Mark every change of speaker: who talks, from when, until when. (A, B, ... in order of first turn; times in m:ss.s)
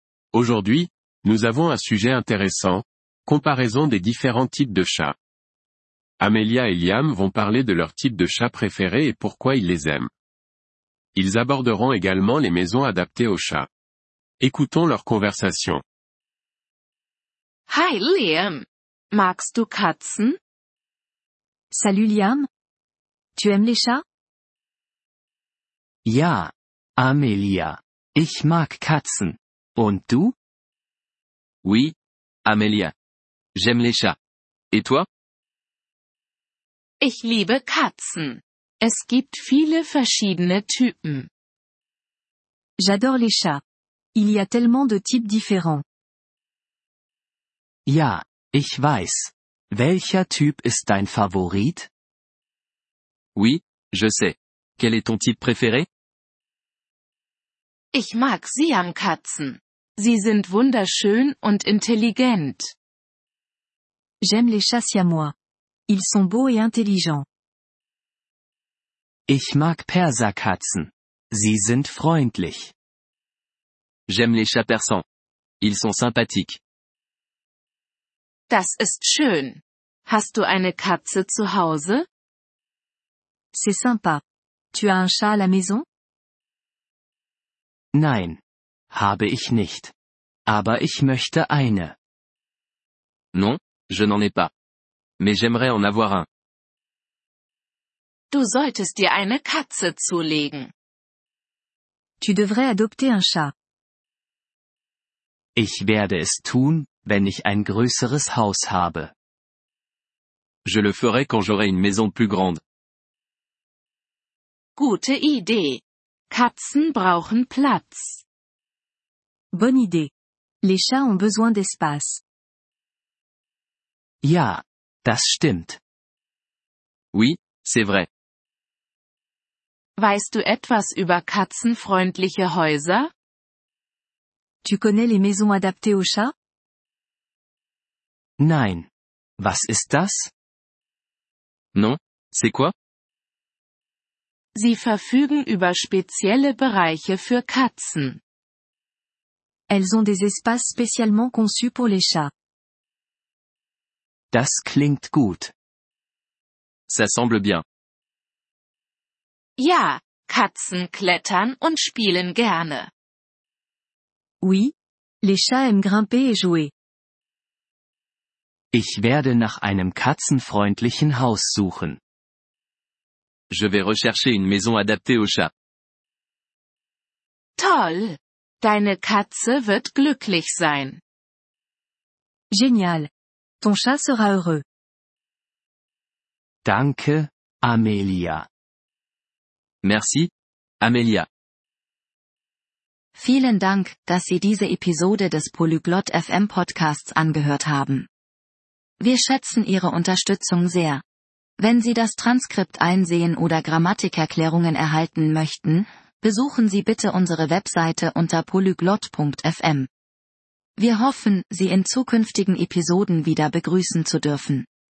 0:00.3-0:05.1 A
0:06.2-0:10.1 A
0:11.1-0:13.7 A
0:14.4-0:15.8 A
0:17.7-0:20.4 B
0:21.7-0:22.5 C
0:23.4-0:24.0 C
0:26.0-0:30.3 D
0:31.6-0:32.9 E
0:33.5-0:34.2 E
0:34.7-0:35.0 E
0:37.0-0:41.3 B
0:42.8-0:43.6 C
0:44.1-0:45.8 C
0:47.8-0:51.9 D
0:53.4-0:55.9 E
0:57.9-1:02.7 B
1:04.2-1:05.3 C
1:05.9-1:07.2 C
1:09.3-1:12.7 D
1:14.1-1:15.0 E
1:15.6-1:16.6 E
1:18.5-1:22.0 B
1:23.5-1:24.2 C
1:24.7-1:25.8 C
1:27.9-1:29.9 D
1:30.5-1:32.0 D
1:33.3-1:34.5 E
1:35.2-1:36.2 E
1:38.3-1:40.7 B
1:42.2-1:43.5 C
1:45.6-1:49.1 D
1:50.6-1:52.6 E
1:54.8-1:58.2 B
1:59.5-2:00.1 C
2:00.6-2:02.2 C
2:04.2-2:05.8 D
2:07.1-2:08.1 E
2:10.0-2:13.1 B
2:14.6-2:16.3 C
2:18.4-2:20.3 D
2:21.7-2:22.7 E
2:24.5-2:28.2 B
2:29.7-2:32.3 C
2:34.3-2:35.5 D
2:36.9-2:37.6 E
2:39.6-2:42.9 B
2:44.4-2:46.7 C
2:48.7-2:52.0 D
2:53.5-2:55.5 E
2:57.6-3:01.0 B
3:02.5-3:03.1 C
3:03.6-3:04.6 C
3:06.6-3:08.5 D
3:09.8-3:11.3 E
3:13.1-3:18.1 F
3:19.0-3:21.0 F
3:21.6-3:29.9 F
3:30.8-3:34.6 F